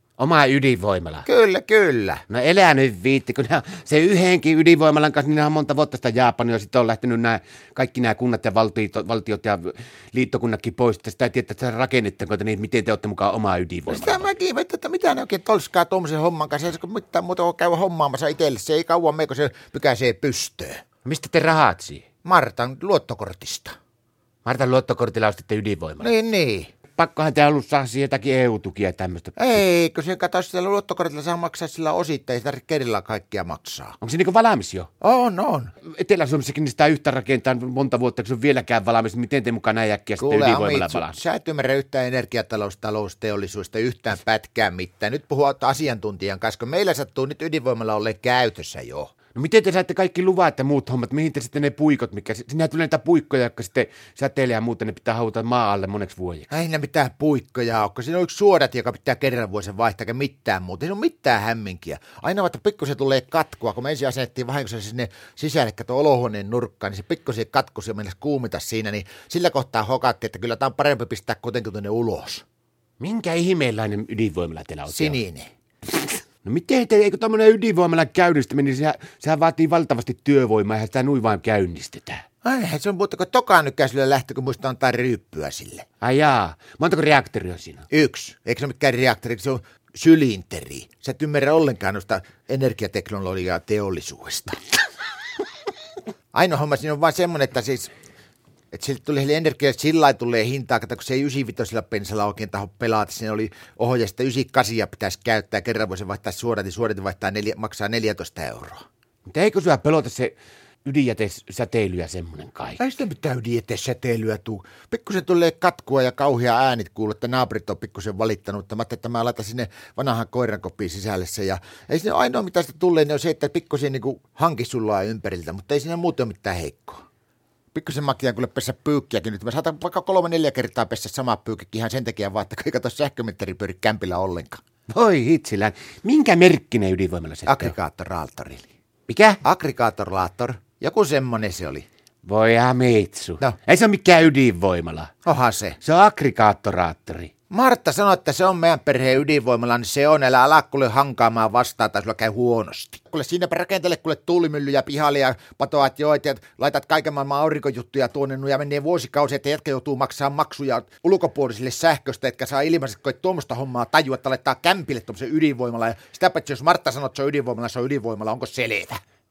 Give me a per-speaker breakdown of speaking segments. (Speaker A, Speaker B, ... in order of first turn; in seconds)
Speaker A: 0.2-1.2, 2.3-14.3, 21.0-22.0, 24.4-26.1, 26.9-29.6, 34.0-34.9, 35.8-41.2, 49.3-56.5, 73.0-75.2, 75.9-82.2, 86.0-87.9, 109.3-112.8, 134.9-137.7, 139.1-139.4, 142.2-145.1, 145.8-147.3
Speaker B: 1.2-2.2, 13.9-20.8, 22.2-23.8, 26.0-26.7, 29.4-34.0, 35.0-35.7, 40.2-49.1, 56.5-72.4, 74.9-75.5, 82.4-85.9, 87.9-94.6, 96.3-97.9, 98.7-108.8, 112.8-127.0, 127.7-134.6, 137.5-138.7, 139.4-141.9, 145.2-145.8, 147.5-169.0